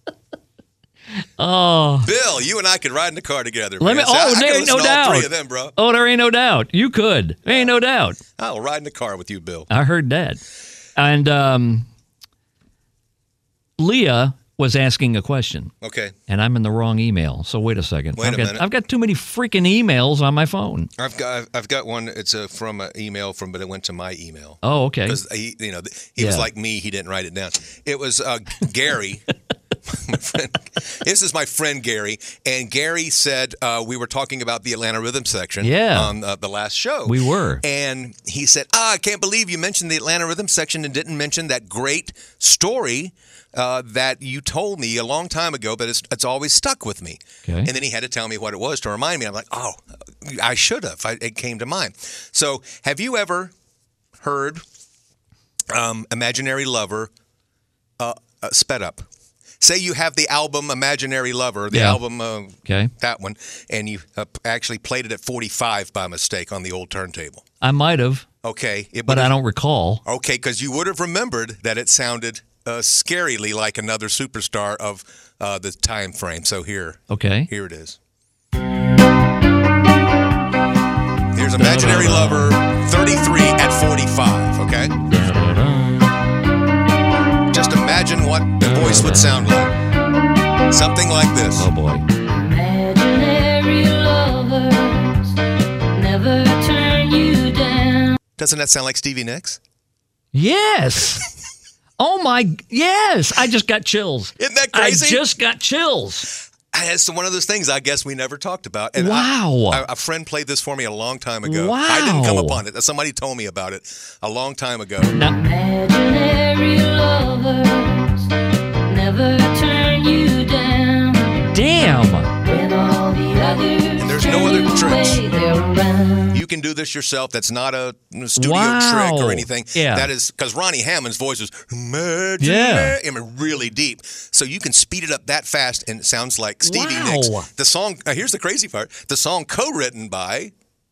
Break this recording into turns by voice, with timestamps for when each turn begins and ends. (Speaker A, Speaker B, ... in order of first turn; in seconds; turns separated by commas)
Speaker A: 1.4-2.1, Speaker B: 2.0-5.8, Speaker A: 3.8-8.2, Speaker B: 8.4-9.7, Speaker A: 9.7-10.4, Speaker A: 11.0-11.9, Speaker A: 13.8-15.7, Speaker B: 15.8-16.1, Speaker A: 16.3-20.9, Speaker B: 18.2-18.7, Speaker B: 21.0-29.3, Speaker A: 24.6-25.2, Speaker A: 26.2-26.5, Speaker B: 29.9-53.5, Speaker A: 35.6-36.1, Speaker A: 37.1-37.6, Speaker A: 47.5-47.7, Speaker B: 54.2-54.6, Speaker B: 55.7-57.1, Speaker B: 58.0-59.1, Speaker B: 59.6-67.5, Speaker A: 61.7-62.0, Speaker A: 62.6-62.9, Speaker A: 67.6-68.3, Speaker B: 68.4-69.3, Speaker A: 69.1-70.0, Speaker B: 70.0-78.0, Speaker A: 77.1-77.5, Speaker B: 81.3-85.0, Speaker A: 81.5-82.5, Speaker A: 85.0-86.1, Speaker B: 87.5-89.7, Speaker A: 88.6-89.5, Speaker B: 90.7-91.7, Speaker A: 91.6-92.0, Speaker C: 92.3-95.4, Speaker C: 95.9-98.2, Speaker B: 98.4-99.6, Speaker A: 100.3-101.3, Speaker A: 102.0-106.3, Speaker B: 104.4-105.2, Speaker B: 106.7-115.1, Speaker A: 109.0-109.8, Speaker A: 111.4-112.6, Speaker A: 115.1-115.4, Speaker C: 115.2-121.5, Speaker A: 121.5-122.3, Speaker C: 122.4-126.4, Speaker B: 124.0-125.2, Speaker B: 126.3-140.5, Speaker A: 128.4-130.1, Speaker A: 132.4-133.0, Speaker A: 136.6-137.5